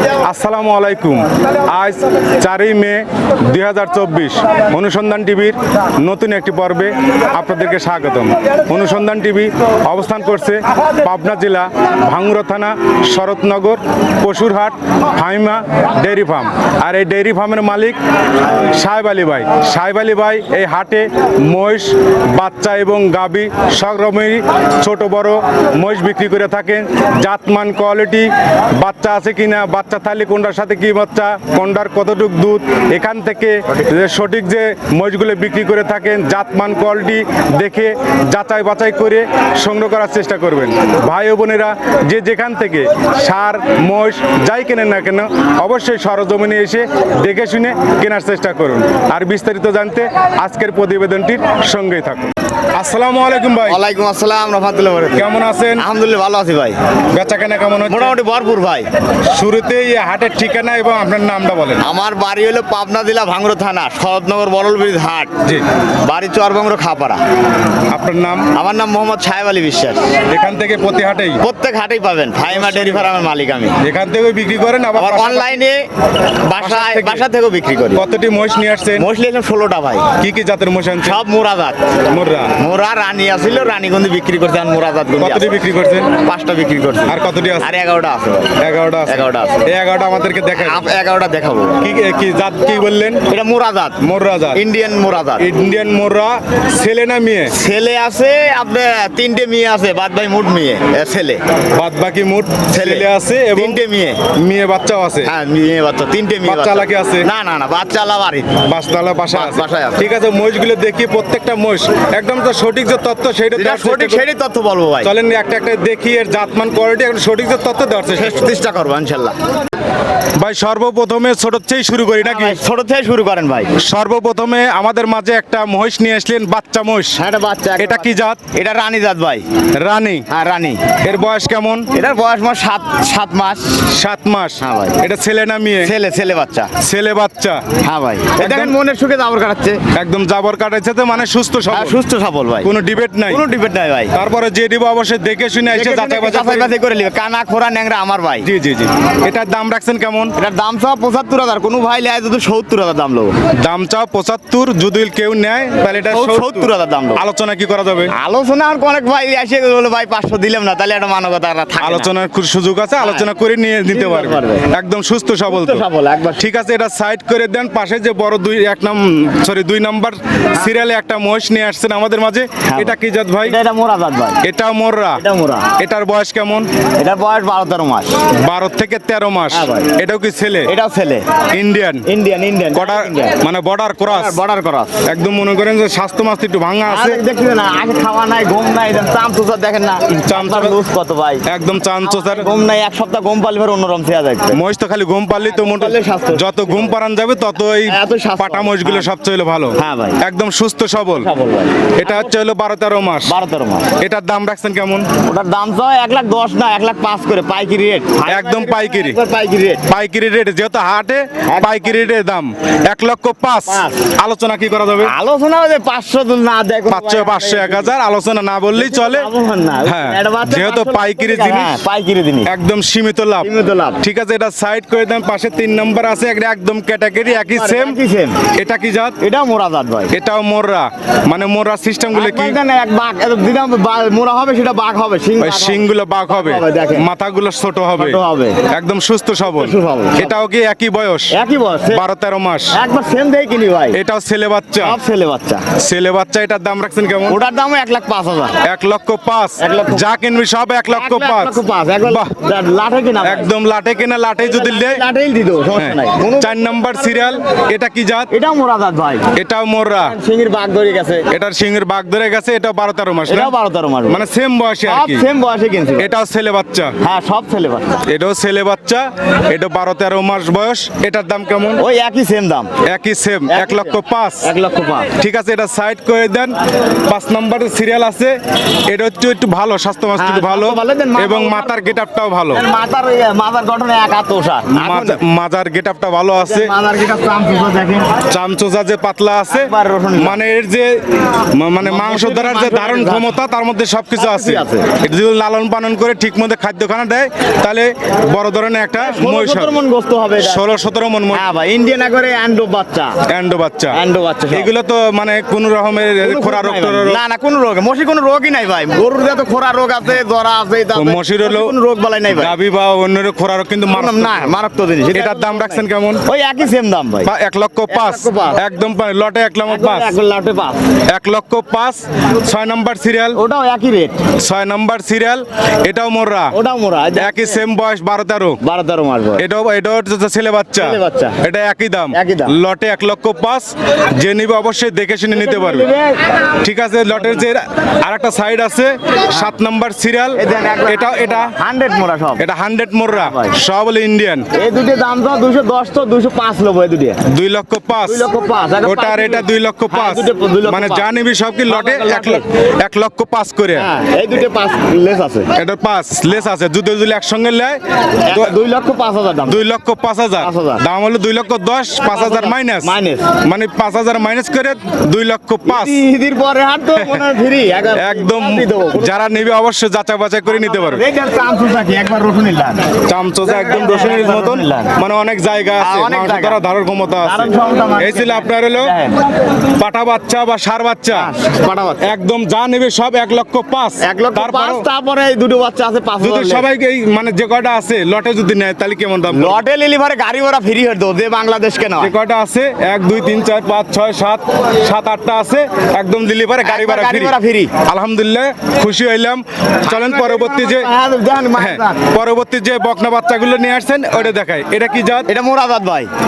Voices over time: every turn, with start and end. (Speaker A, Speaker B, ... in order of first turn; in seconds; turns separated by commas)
Speaker A: 0.2-18.0, Speaker A: 18.7-53.8, Speaker B: 53.6-56.8, Speaker A: 55.1-55.8, Speaker A: 57.1-58.1, Speaker B: 57.9-58.9, Speaker A: 59.3-61.8, Speaker B: 61.8-65.3, Speaker B: 66.0-67.2, Speaker A: 67.9-68.5, Speaker B: 68.5-70.2, Speaker A: 70.3-71.4, Speaker B: 71.4-73.8, Speaker A: 72.5-73.1, Speaker A: 73.8-75.6, Speaker B: 75.0-75.8, Speaker B: 76.4-78.0, Speaker A: 76.6-77.2, Speaker A: 77.9-79.0, Speaker B: 79.0-80.1, Speaker A: 80.2-81.2, Speaker B: 81.0-81.9, Speaker A: 82.1-82.5, Speaker B: 82.5-85.6, Speaker A: 85.2-86.1, Speaker B: 86.1-89.6, Speaker A: 87.1-87.8, Speaker A: 88.6-90.8, Speaker B: 90.5-91.8, Speaker A: 91.8-93.2, Speaker B: 93.3-94.0, Speaker A: 94.0-94.6, Speaker B: 94.5-95.5, Speaker A: 95.4-97.5, Speaker B: 97.5-101.4, Speaker A: 101.7-105.3, Speaker B: 102.7-104.2, Speaker B: 105.2-108.6, Speaker A: 106.4-107.3, Speaker A: 108.6-114.2, Speaker B: 109.3-110.0, Speaker B: 113.5-115.1, Speaker A: 115.0-118.5, Speaker B: 118.1-119.3, Speaker A: 120.3-122.6, Speaker B: 122.2-123.7, Speaker A: 123.8-127.2, Speaker B: 127.2-129.4, Speaker A: 127.8-128.4, Speaker A: 129.7-130.2, Speaker B: 130.3-130.8, Speaker A: 131.0-131.9, Speaker B: 131.9-133.9, Speaker A: 133.9-135.9, Speaker B: 134.6-135.0, Speaker B: 135.8-136.7, Speaker A: 136.8-137.6, Speaker B: 137.8-139.8, Speaker A: 138.4-138.7, Speaker A: 139.9-142.0, Speaker B: 141.7-142.7, Speaker A: 142.6-143.4, Speaker B: 143.3-144.2, Speaker A: 144.1-146.7, Speaker B: 145.7-148.5, Speaker A: 148.4-150.3, Speaker B: 150.4-153.3, Speaker A: 153.6-158.1, Speaker B: 156.0-157.2, Speaker B: 158.1-162.1, Speaker A: 161.8-165.8, Speaker B: 163.0-163.3, Speaker B: 163.9-164.7, Speaker B: 165.5-166.4, Speaker A: 166.4-173.6, Speaker B: 172.7-174.4, Speaker A: 174.4-175.2, Speaker B: 175.2-175.7, Speaker A: 175.8-176.7, Speaker B: 177.0-178.2, Speaker A: 178.3-180.7, Speaker B: 179.5-179.9, Speaker B: 180.7-181.3, Speaker A: 181.5-182.1, Speaker B: 182.1-183.4, Speaker A: 182.7-184.4, Speaker B: 184.1-185.0, Speaker A: 185.0-187.2, Speaker B: 186.8-191.4, Speaker A: 190.2-190.8, Speaker A: 191.4-192.5, Speaker B: 192.0-194.6, Speaker A: 194.5-201.3, Speaker B: 195.4-196.9, Speaker B: 197.9-199.1, Speaker B: 199.8-200.2, Speaker B: 201.2-202.3, Speaker A: 202.0-203.3, Speaker B: 203.2-203.9, Speaker A: 204.0-205.1, Speaker B: 205.2-209.8, Speaker A: 208.2-209.2, Speaker A: 209.9-215.1, Speaker B: 211.5-212.1, Speaker B: 213.7-214.0, Speaker B: 215.0-217.9, Speaker A: 216.9-219.3, Speaker B: 218.8-222.5, Speaker A: 219.8-221.8, Speaker A: 222.4-223.5, Speaker B: 223.4-224.0, Speaker A: 224.0-228.0, Speaker B: 227.3-228.4, Speaker A: 228.5-229.2, Speaker B: 229.2-230.1, Speaker A: 230.1-232.6, Speaker B: 232.1-237.1, Speaker A: 235.4-238.2, Speaker B: 238.0-238.6, Speaker A: 238.7-241.3, Speaker B: 239.4-240.3, Speaker B: 241.3-242.0, Speaker A: 241.9-242.7, Speaker B: 242.7-244.0, Speaker A: 243.9-245.0, Speaker B: 244.8-245.7, Speaker A: 245.8-247.4, Speaker B: 247.3-248.5, Speaker A: 248.6-252.3, Speaker B: 249.6-250.2, Speaker B: 250.9-253.5, Speaker A: 253.2-255.0, Speaker B: 254.4-257.4, Speaker A: 255.7-258.3, Speaker B: 258.3-259.3, Speaker A: 259.3-260.1, Speaker B: 260.0-261.2, Speaker A: 261.3-263.5, Speaker B: 263.3-264.2, Speaker A: 264.1-265.2, Speaker B: 264.8-266.1, Speaker A: 266.0-266.9, Speaker B: 267.0-268.0, Speaker A: 268.0-271.8, Speaker B: 271.8-272.7, Speaker A: 272.8-274.5, Speaker B: 273.5-275.1, Speaker A: 275.2-282.6, Speaker B: 280.2-282.0, Speaker B: 282.5-285.2, Speaker A: 284.8-286.7, Speaker B: 286.4-288.1, Speaker A: 288.3-299.8, Speaker B: 289.5-290.4, Speaker B: 291.8-293.3, Speaker B: 294.2-294.9, Speaker B: 299.0-300.7, Speaker A: 300.4-301.5, Speaker B: 301.3-303.1, Speaker A: 303.3-304.0, Speaker B: 303.9-304.7, Speaker A: 304.5-307.2, Speaker B: 306.2-312.5, Speaker A: 310.9-311.7, Speaker A: 312.3-314.5, Speaker B: 313.9-317.3, Speaker A: 315.1-316.2, Speaker A: 317.2-320.1, Speaker B: 317.9-318.6, Speaker B: 319.6-320.8, Speaker A: 321.1-323.4, Speaker B: 323.3-324.2, Speaker A: 324.4-326.5, Speaker B: 326.5-327.6, Speaker A: 327.1-328.6, Speaker B: 328.6-329.4, Speaker A: 329.4-335.9, Speaker B: 330.8-331.4, Speaker B: 332.1-332.5, Speaker B: 335.3-336.2, Speaker A: 336.6-341.5, Speaker B: 337.1-337.4, Speaker B: 340.3-342.4, Speaker A: 342.4-344.4, Speaker B: 343.1-343.6, Speaker B: 344.5-347.2, Speaker A: 347.2-348.2, Speaker B: 348.0-351.1, Speaker A: 348.8-353.9, Speaker B: 351.7-352.4, Speaker B: 353.8-355.5, Speaker A: 355.6-358.5, Speaker B: 358.3-359.6, Speaker A: 359.4-366.0, Speaker B: 360.4-360.8, Speaker B: 362.1-363.3, Speaker B: 365.6-369.5, Speaker A: 367.0-367.2, Speaker A: 367.9-371.0, Speaker B: 370.5-372.9, Speaker A: 373.1-378.9, Speaker B: 373.4-374.9, Speaker B: 375.8-376.6, Speaker B: 377.2-379.2, Speaker A: 379.7-381.3, Speaker B: 381.1-382.1, Speaker A: 382.0-384.8, Speaker B: 384.0-386.6, Speaker A: 386.2-389.6, Speaker B: 389.3-392.1, Speaker A: 392.0-400.9, Speaker B: 396.6-397.7, Speaker B: 399.8-402.0, Speaker A: 401.6-405.3, Speaker B: 405.3-406.1